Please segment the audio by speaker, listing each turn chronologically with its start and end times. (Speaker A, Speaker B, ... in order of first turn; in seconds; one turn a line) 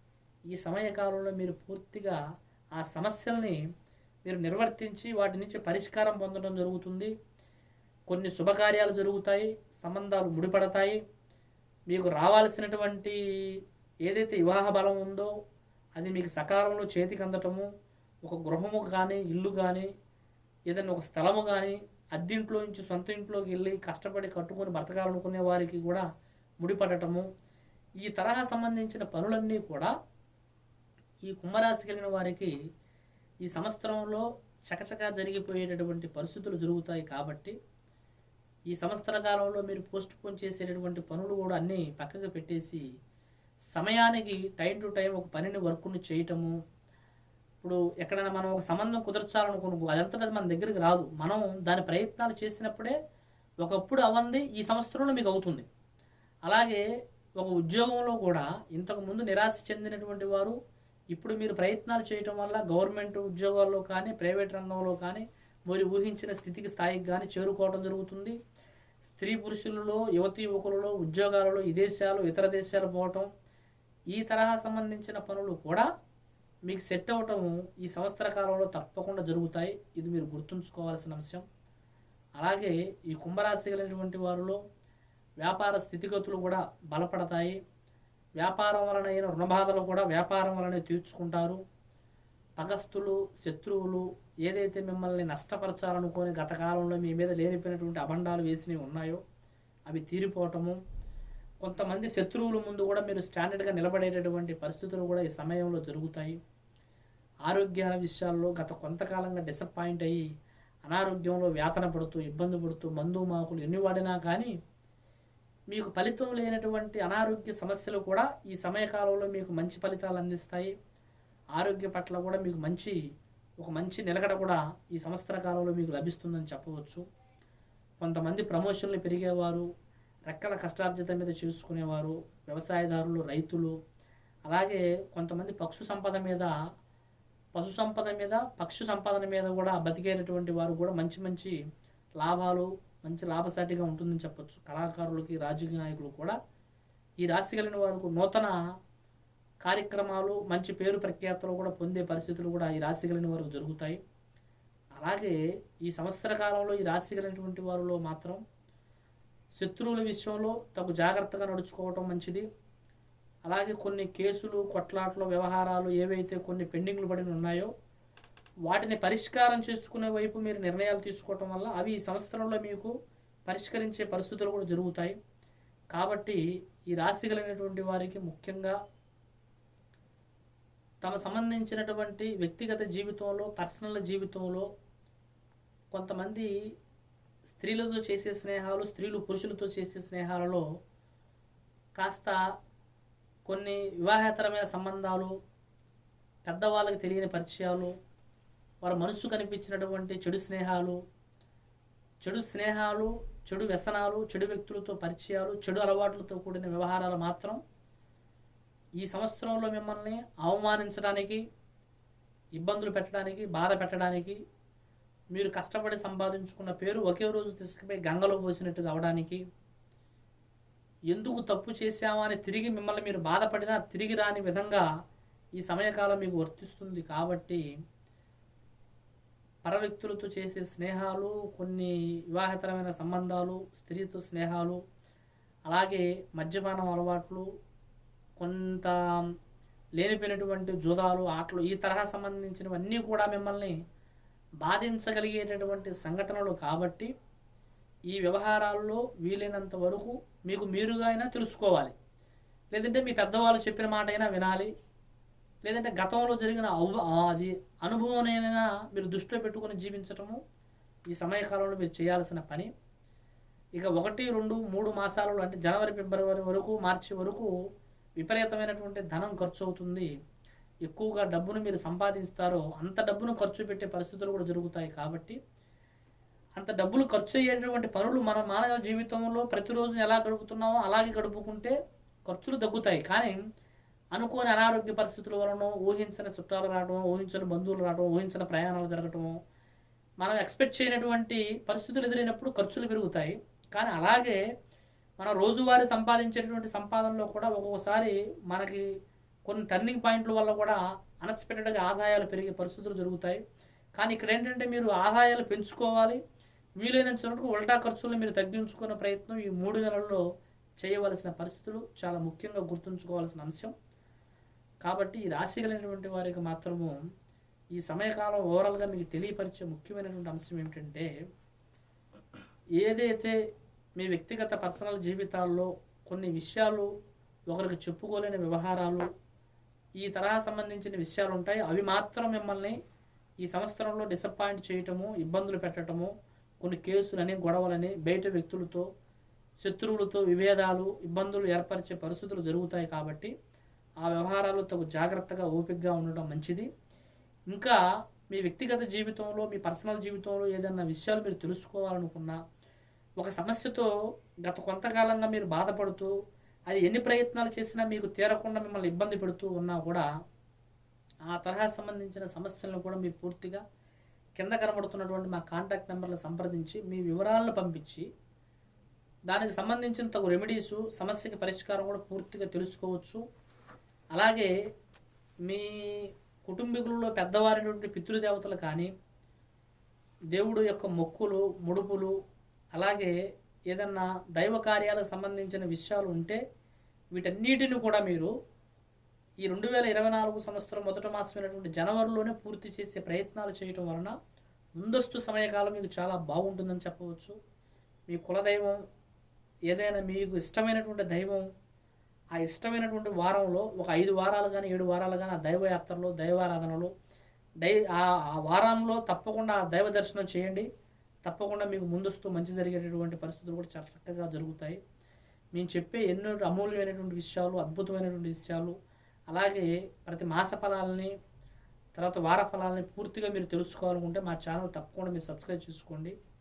Speaker A: 0.5-2.2
Speaker A: 2.8-3.6
Speaker A: 4.2-7.1
Speaker A: 8.1-11.0
Speaker A: 11.9-13.2
Speaker A: 14.1-15.3
Speaker A: 16.0-17.7
Speaker A: 18.2-19.9
Speaker A: 20.7-26.1
Speaker A: 26.6-27.3
Speaker A: 28.0-29.9
Speaker A: 31.3-32.5
Speaker A: 33.4-37.5
Speaker A: 38.7-42.8
Speaker A: 43.7-46.5
Speaker A: 47.6-53.0
Speaker A: 53.6-55.7
Speaker A: 56.5-56.8
Speaker A: 57.4-60.6
Speaker A: 61.1-68.4
Speaker A: 69.0-73.3
Speaker A: 74.1-75.9
Speaker A: 76.7-81.4
Speaker A: 82.4-84.6
Speaker A: 85.4-87.6
Speaker A: 88.4-91.6
Speaker A: 92.6-99.2
Speaker A: 99.9-100.8
Speaker A: 101.6-106.4
Speaker A: 107.5-110.2
Speaker A: 110.9-114.5
Speaker A: 115.7-120.7
Speaker A: 121.6-123.0
Speaker A: 123.6-127.0
Speaker A: 128.0-129.7
Speaker A: 130.3-133.7
Speaker A: 134.5-136.5
Speaker A: 137.6-141.6
Speaker A: 142.2-146.3
Speaker A: 147.2-148.6
Speaker A: 149.6-154.0
Speaker A: 155.0-158.4
Speaker A: 159.6-162.4
Speaker A: 163.5-167.7
Speaker A: 168.7-172.9
Speaker A: 173.5-175.2
Speaker A: 175.9-176.4
Speaker A: 176.9-178.8
Speaker A: 181.0-184.7
Speaker A: 185.9-186.5
Speaker A: 187.5-190.6
Speaker A: 192.0-192.4
Speaker A: 193.5-195.3
Speaker A: 196.5-197.9
Speaker A: 198.8-201.0
Speaker A: 202.2-207.6
Speaker A: 209.0-211.4
Speaker A: 212.6-214.4
Speaker A: 215.3-219.4
Speaker A: 221.1-224.9
Speaker A: 225.6-227.6
Speaker A: 229.6-234.8
Speaker A: 235.7-237.4
Speaker A: 238.4-239.0
Speaker A: 240.0-243.8
Speaker A: 244.6-247.1
Speaker A: 248.1-251.9
Speaker A: 252.7-254.7
Speaker A: 255.6-260.4
Speaker A: 261.1-262.7
Speaker A: 263.8-267.5
Speaker A: 268.2-270.1
Speaker A: 270.9-275.4
Speaker A: 276.6-281.8
Speaker A: 282.3-283.4
Speaker A: 284.1-289.3
Speaker A: 290.2-294.4
Speaker A: 295.2-298.9
Speaker A: 299.5-303.4
Speaker A: 304.0-306.2
Speaker A: 306.8-310.2
Speaker A: 310.8-313.7
Speaker A: 314.8-317.0
Speaker A: 317.8-321.1
Speaker A: 322.8-323.4
Speaker A: 324.0-326.9
Speaker A: 327.5-329.1
Speaker A: 330.0-332.8
Speaker A: 333.4-336.1
Speaker A: 336.6-338.9
Speaker A: 339.6-343.3
Speaker A: 344.0-346.7
Speaker A: 347.5-347.8
Speaker A: 348.3-352.4
Speaker A: 353.2-353.9
Speaker A: 354.4-356.1
Speaker A: 356.7-360.1
Speaker A: 361.3-363.6
Speaker A: 364.4-368.1
Speaker A: 369.3-373.2
Speaker A: 374.1-374.5
Speaker A: 375.5-378.9
Speaker A: 380.3-382.1
Speaker A: 382.8-383.1
Speaker A: 383.7-386.4
Speaker A: 387.1-388.3
Speaker A: 389.4-394.1
Speaker A: 394.8-397.4
Speaker A: 398.1-398.8
Speaker A: 399.7-401.4
Speaker A: 402.4-406.9
Speaker A: 407.6-410.7
Speaker A: 411.2-414.8
Speaker A: 415.5-418.7
Speaker A: 419.3-421.1
Speaker A: 422.0-426.1